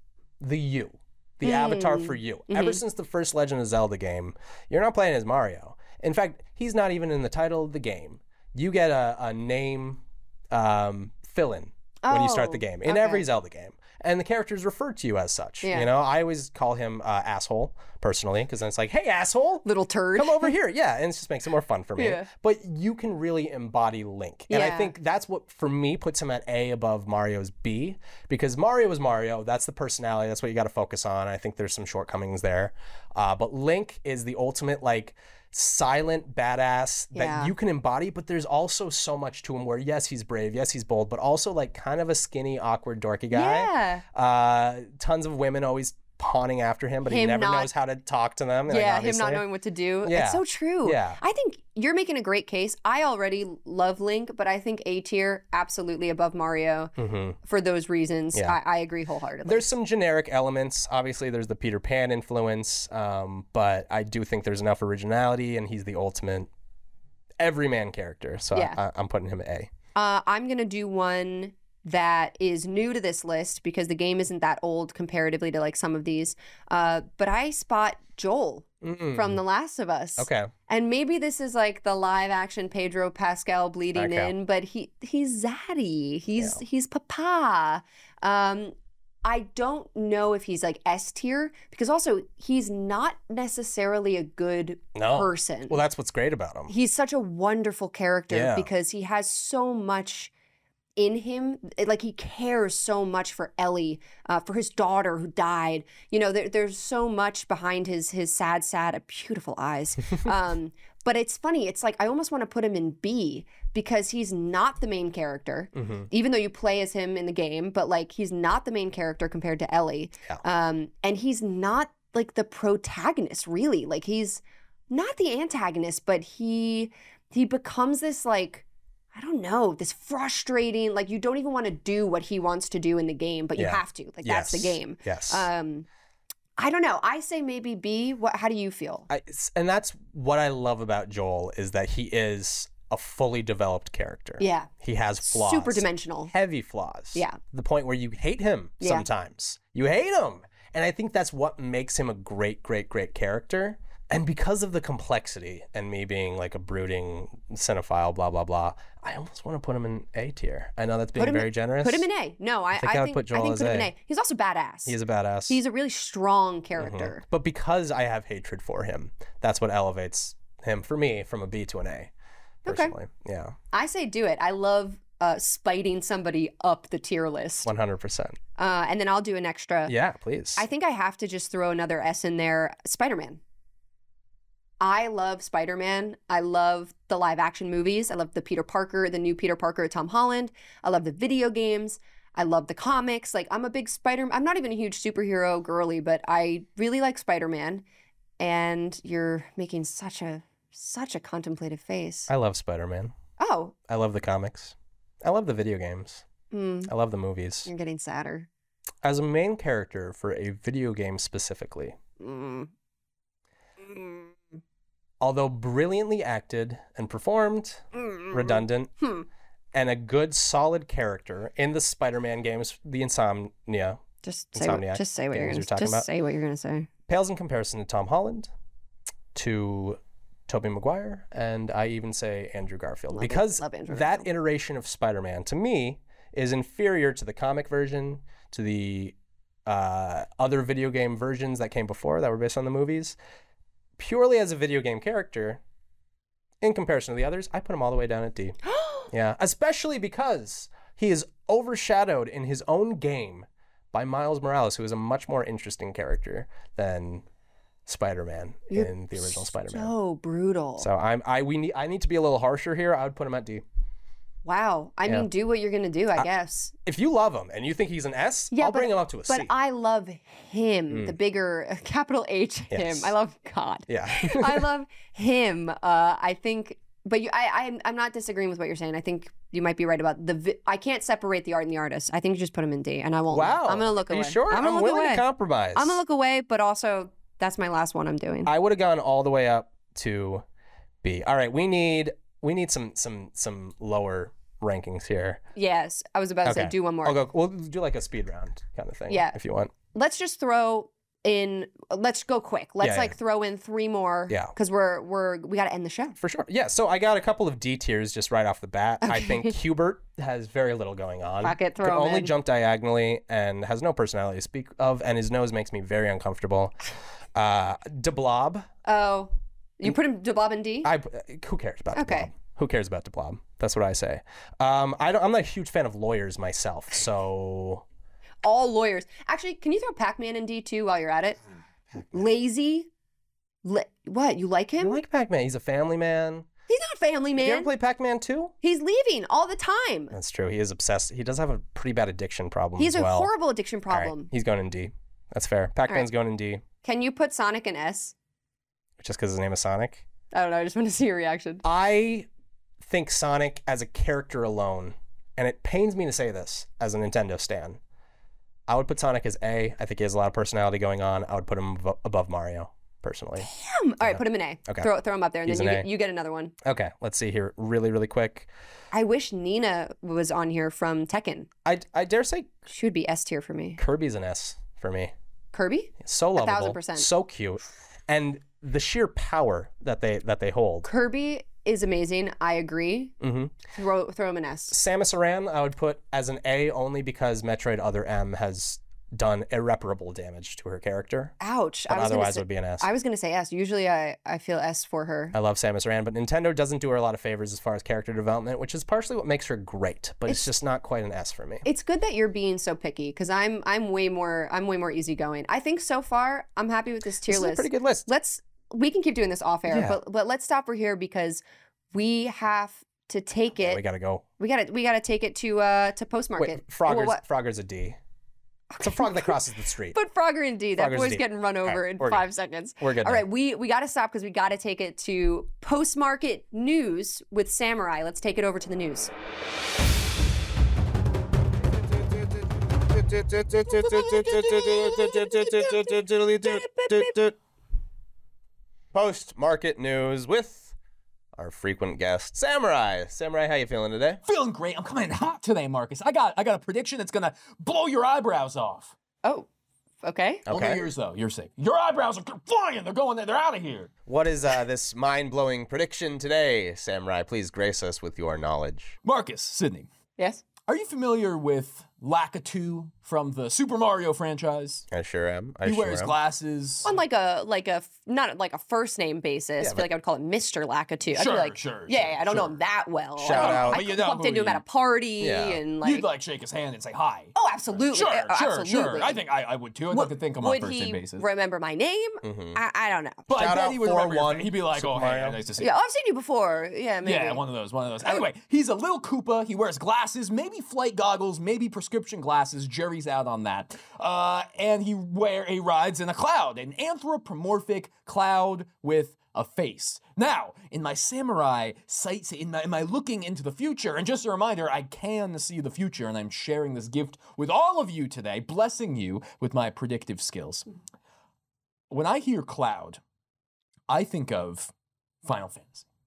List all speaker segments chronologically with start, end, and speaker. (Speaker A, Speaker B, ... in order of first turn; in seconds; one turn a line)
Speaker A: 0.4-49.4
Speaker B: 1.4-2.8
Speaker B: 12.0-13.2
Speaker B: 15.6-15.9
Speaker B: 19.6-20.5
Speaker B: 22.0-22.3
Speaker B: 24.5-24.9
Speaker B: 37.1-37.5
Speaker B: 43.3-44.0
Speaker B: 47.0-47.7
Speaker B: 48.7-59.7
Speaker A: 50.0-51.2
Speaker A: 57.0-57.4
Speaker A: 59.4-66.5
Speaker A: 67.4-69.7
Speaker B: 69.9-95.8
Speaker A: 78.8-79.4
Speaker A: 80.2-80.5
Speaker A: 83.9-84.3
Speaker A: 94.9-96.7
Speaker B: 96.7-100.3
Speaker A: 98.3-98.7
Speaker B: 101.0-135.9
Speaker A: 115.7-116.1
Speaker A: 133.6-135.5
Speaker B: 136.6-139.1
Speaker A: 139.1-162.1
Speaker B: 144.4-144.7
Speaker B: 145.2-146.3
Speaker B: 148.8-149.1
Speaker B: 161.2-165.0
Speaker A: 162.7-163.9
Speaker A: 164.8-165.6
Speaker B: 165.5-167.2
Speaker A: 166.8-172.1
Speaker A: 172.6-173.6
Speaker B: 172.7-172.9
Speaker B: 173.7-177.7
Speaker A: 177.6-178.4
Speaker B: 178.6-179.9
Speaker A: 179.8-180.6
Speaker B: 180.6-183.4
Speaker B: 184.8-197.8
Speaker B: 198.4-202.3
Speaker A: 202.3-203.1
Speaker B: 203.4-203.7
Speaker A: 203.9-206.2
Speaker B: 206.5-206.9
Speaker A: 206.8-207.7
Speaker B: 207.7-208.5
Speaker A: 209.0-212.0
Speaker B: 212.2-212.7
Speaker B: 213.8-214.4
Speaker A: 215.2-218.9
Speaker B: 217.9-219.2
Speaker A: 219.7-224.0
Speaker B: 224.2-226.9
Speaker A: 224.5-226.1
Speaker A: 227.1-228.5
Speaker A: 229.3-239.1
Speaker B: 233.1-234.3
Speaker A: 239.7-243.2
Speaker A: 244.0-245.6
Speaker A: 246.6-248.6
Speaker B: 248.6-249.1
Speaker A: 249.1-257.2
Speaker A: 257.9-259.9
Speaker B: 258.7-260.9
Speaker A: 260.8-263.6
Speaker B: 264.4-266.7
Speaker A: 266.8-269.5
Speaker B: 268.5-288.5
Speaker A: 270.9-271.1
Speaker A: 272.7-273.1
Speaker A: 273.9-274.6
Speaker A: 283.3-286.0
Speaker A: 288.4-290.4
Speaker A: 291.0-295.4
Speaker B: 295.5-297.2
Speaker A: 296.4-299.7
Speaker B: 299.1-299.4
Speaker B: 299.9-306.2
Speaker A: 302.8-303.1
Speaker A: 306.2-316.7
Speaker B: 309.0-309.5
Speaker B: 311.4-312.3
Speaker A: 317.4-318.7
Speaker B: 318.8-320.9
Speaker A: 320.8-327.8
Speaker B: 321.9-322.3
Speaker B: 328.4-331.4
Speaker B: 332.1-332.9
Speaker B: 333.6-335.0
Speaker A: 334.8-336.5
Speaker B: 336.7-337.7
Speaker A: 337.4-338.5
Speaker B: 338.6-340.1
Speaker A: 340.1-343.3
Speaker B: 342.8-344.3
Speaker A: 343.9-346.6
Speaker B: 346.8-348.1
Speaker A: 349.0-350.0
Speaker B: 350.3-351.6
Speaker A: 351.6-352.3
Speaker A: 352.8-357.8
Speaker A: 358.7-363.5
Speaker B: 363.4-366.5
Speaker A: 364.0-364.9
Speaker A: 365.4-365.9
Speaker A: 366.6-368.5
Speaker B: 368.9-371.5
Speaker A: 371.6-372.5
Speaker B: 372.7-373.8
Speaker A: 373.8-375.1
Speaker B: 375.5-377.1
Speaker A: 376.0-380.9
Speaker B: 380.8-383.1
Speaker A: 383.2-383.6
Speaker B: 383.7-384.7
Speaker A: 384.7-391.3
Speaker B: 391.4-395.3
Speaker A: 391.9-392.9
Speaker A: 395.3-401.6
Speaker B: 401.6-413.8
Speaker A: 407.3-408.1
Speaker A: 409.7-410.0
Speaker A: 413.6-414.2
Speaker B: 414.4-417.2
Speaker A: 416.4-418.0
Speaker B: 418.7-419.4
Speaker A: 418.8-420.0
Speaker B: 419.9-429.1
Speaker A: 420.8-422.2
Speaker A: 422.8-423.2
Speaker A: 431.7-437.3
Speaker C: 433.9-435.1
Speaker B: 434.7-435.8
Speaker B: 436.4-437.2
Speaker A: 438.9-440.7
Speaker A: 441.4-444.2
Speaker C: 444.2-448.9
Speaker B: 450.0-450.4
Speaker A: 450.5-450.8
Speaker C: 450.5-453.9
Speaker A: 454.1-458.9
Speaker C: 459.0-459.9
Speaker B: 460.2-460.4
Speaker C: 460.7-464.8
Speaker A: 464.9-466.1
Speaker C: 465.6-466.9
Speaker B: 466.8-476.1
Speaker A: 469.6-469.9
Speaker C: 471.1-472.5
Speaker A: 473.2-473.8
Speaker C: 473.3-474.6
Speaker A: 475.2-475.6
Speaker C: 475.8-481.2
Speaker B: 477.3-479.2
Speaker B: 479.9-483.3
Speaker A: 482.2-482.6
Speaker C: 483.3-485.7
Speaker A: 483.3-485.4
Speaker B: 485.6-487.4
Speaker C: 487.0-510.6
Speaker C: 511.9-513.0
Speaker C: 513.9-514.7
Speaker C: 515.2-515.8